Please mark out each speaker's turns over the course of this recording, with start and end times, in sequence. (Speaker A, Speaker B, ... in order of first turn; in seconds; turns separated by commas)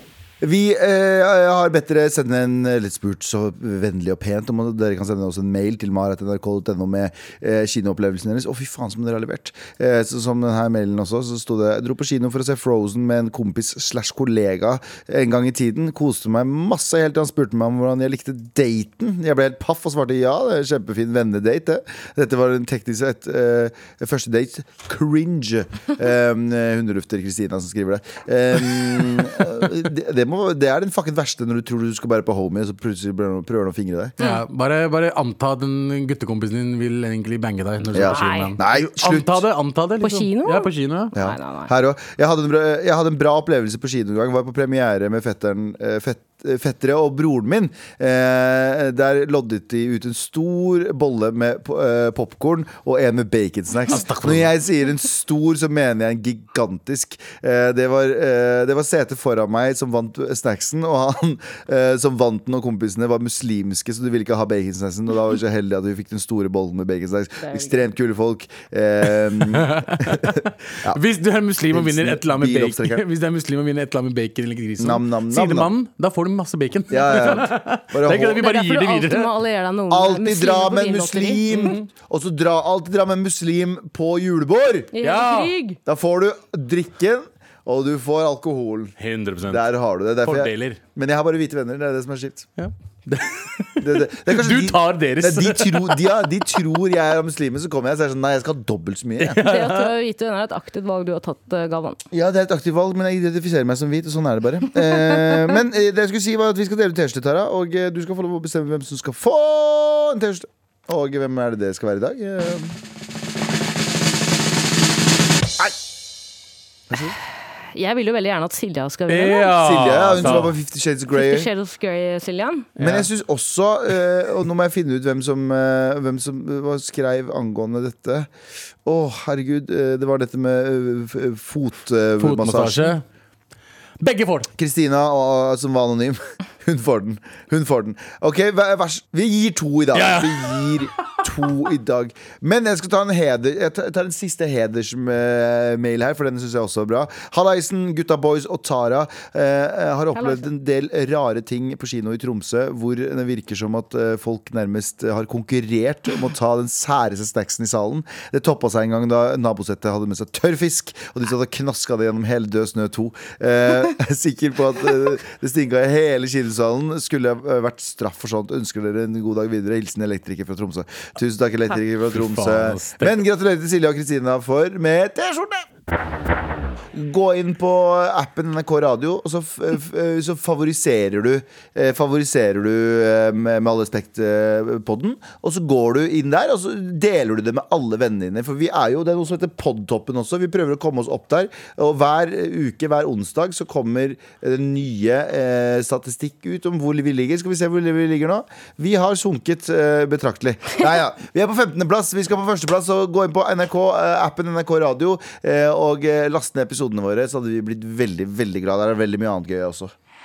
Speaker A: 0.4-34.2, Speaker B: 34.2-41.1, Speaker A: 37.9-39.5, Speaker C: 38.1-38.5, Speaker C: 40.0-41.7, Speaker A: 41.1-71.0, Speaker B: 53.9-54.5, Speaker C: 67.4-67.7, Speaker B: 69.5-79.3, Speaker A: 71.7-73.0, Speaker A: 74.8-75.7, Speaker A: 76.9-78.5, Speaker C: 78.4-81.7, Speaker A: 79.9-84.9, Speaker B: 81.5-81.8, Speaker C: 84.9-85.8, Speaker B: 85.0-85.5, Speaker A: 85.9-88.9, Speaker B: 89.0-89.7, Speaker A: 89.5-92.5, Speaker B: 90.2-90.8, Speaker B: 92.6-96.2, Speaker A: 93.8-99.4, Speaker B: 99.2-99.9, Speaker C: 99.4-102.0, Speaker A: 102.1-112.8, Speaker A: 116.9-117.2, Speaker C: 117.7-119.6, Speaker B: 119.1-120.5, Speaker A: 119.5-121.5, Speaker C: 121.1-122.7, Speaker B: 122.8-123.1, Speaker A: 122.8-128.3, Speaker A: 128.8-133.0, Speaker B: 132.2-133.0, Speaker B: 134.0-134.5, Speaker A: 134.6-175.7, Speaker B: 139.9-140.9, Speaker C: 150.2-150.4, Speaker B: 172.0-173.2, Speaker A: 176.9-209.9